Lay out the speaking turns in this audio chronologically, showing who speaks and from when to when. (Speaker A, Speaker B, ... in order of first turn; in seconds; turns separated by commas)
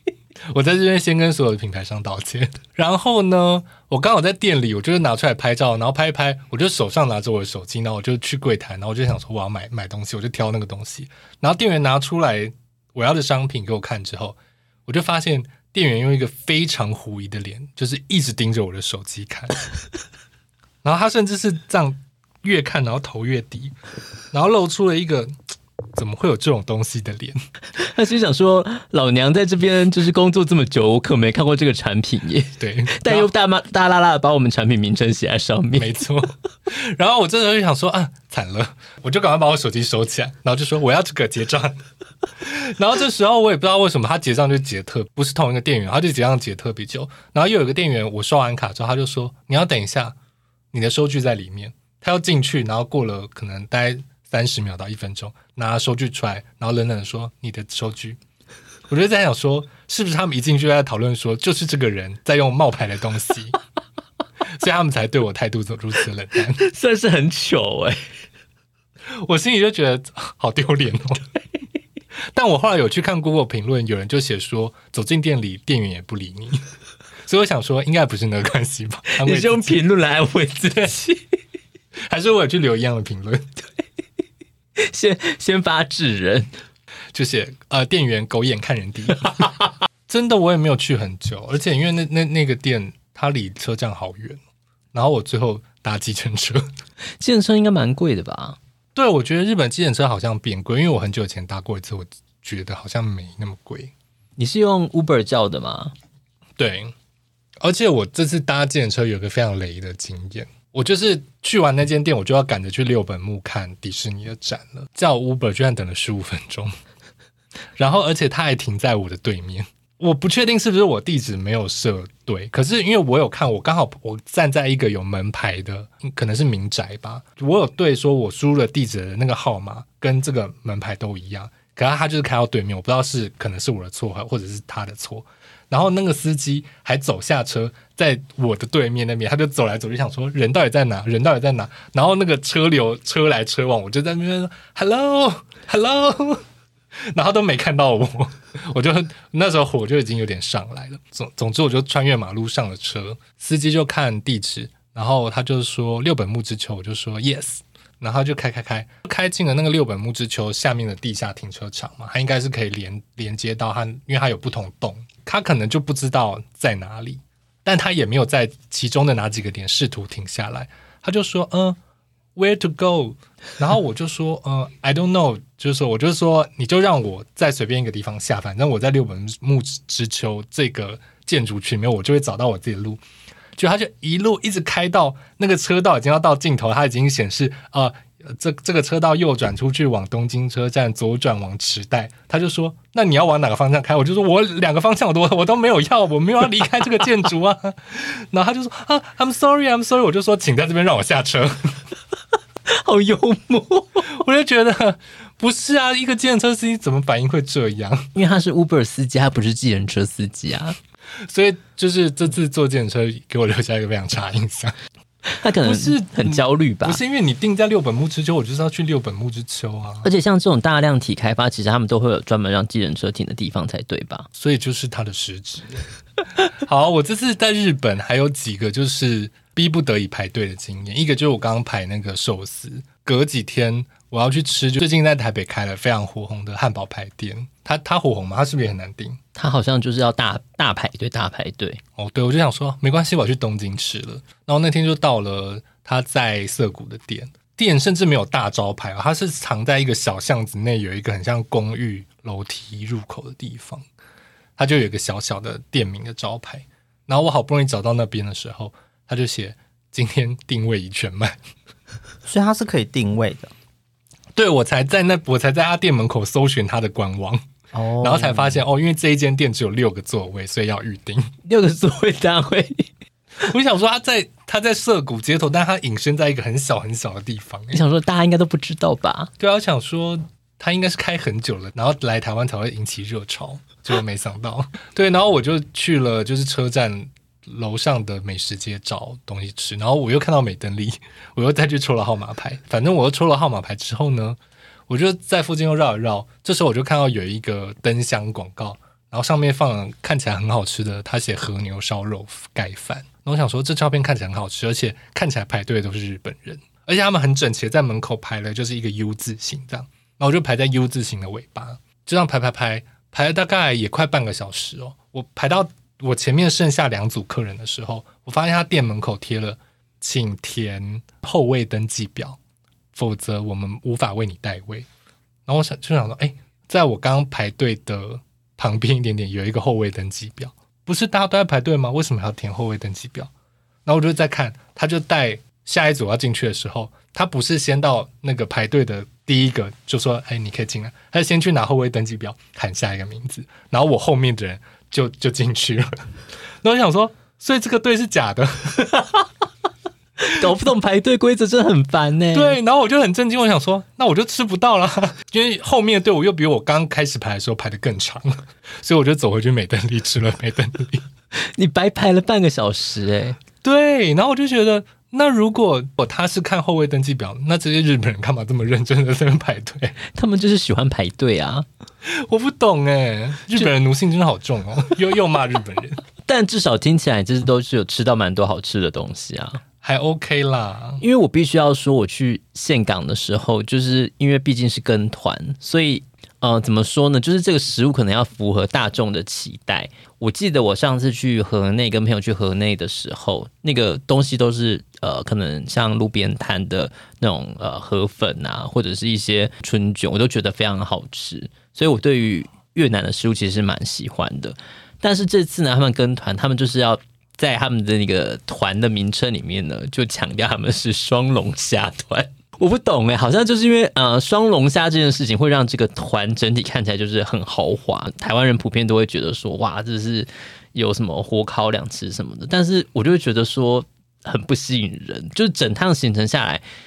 Speaker A: 0.5-19.6, Speaker A: 20.8-23.8, Speaker A: 24.3-25.4, Speaker A: 25.9-27.4, Speaker B: 27.8-36.0, Speaker A: 32.6-33.3, Speaker A: 35.7-41.8, Speaker A: 42.4-50.1, Speaker A: 50.7-58.2, Speaker A: 58.9-63.6, Speaker A: 64.5-66.6, Speaker B: 66.6-68.0, Speaker A: 69.1-71.3, Speaker A: 72.3-76.7, Speaker A: 77.3-79.8, Speaker B: 79.1-81.2, Speaker A: 82.1-83.5, Speaker B: 84.8-86.5, Speaker A: 87.1-89.5, Speaker A: 90.1-94.4, Speaker A: 94.9-96.7, Speaker B: 97.2-98.6, Speaker A: 98.9-103.9, Speaker B: 104.4-105.9, Speaker A: 106.6-106.9, Speaker A: 107.6-116.7, Speaker A: 117.8-146.4, Speaker A: 147.0-171.8, Speaker A: 172.4-183.0, Speaker A: 183.6-201.8, Speaker B: 202.7-204.1, Speaker A: 204.1-208.1, Speaker B: 208.1-210.8, Speaker A: 211.2-214.8, Speaker B: 215.3-217.0, Speaker A: 215.6-220.1, Speaker B: 220.0-224.3, Speaker A: 224.4-225.9, Speaker A: 226.4-239.2, Speaker B: 239.3-241.8, Speaker A: 241.9-253.9, Speaker A: 254.6-261.4, Speaker C: 262.3-263.5, Speaker A: 264.4-267.4, Speaker C: 267.7-268.6, Speaker A: 268.0-271.3, Speaker B: 271.4-272.9, Speaker A: 273.4-277.8, Speaker B: 277.7-279.3, Speaker A: 279.4-322.4, Speaker A: 322.9-324.9, Speaker A: 325.4-333.3, Speaker A: 333.9-346.1, Speaker A: 346.6-349.0, Speaker B: 350.2-352.6, Speaker A: 352.3-361.1, Speaker B: 361.4-363.4, Speaker A: 363.6-370.0, Speaker B: 370.1-371.6, Speaker A: 372.1-376.0, Speaker B: 376.2-379.6, Speaker A: 379.8-381.0, Speaker B: 381.0-426.6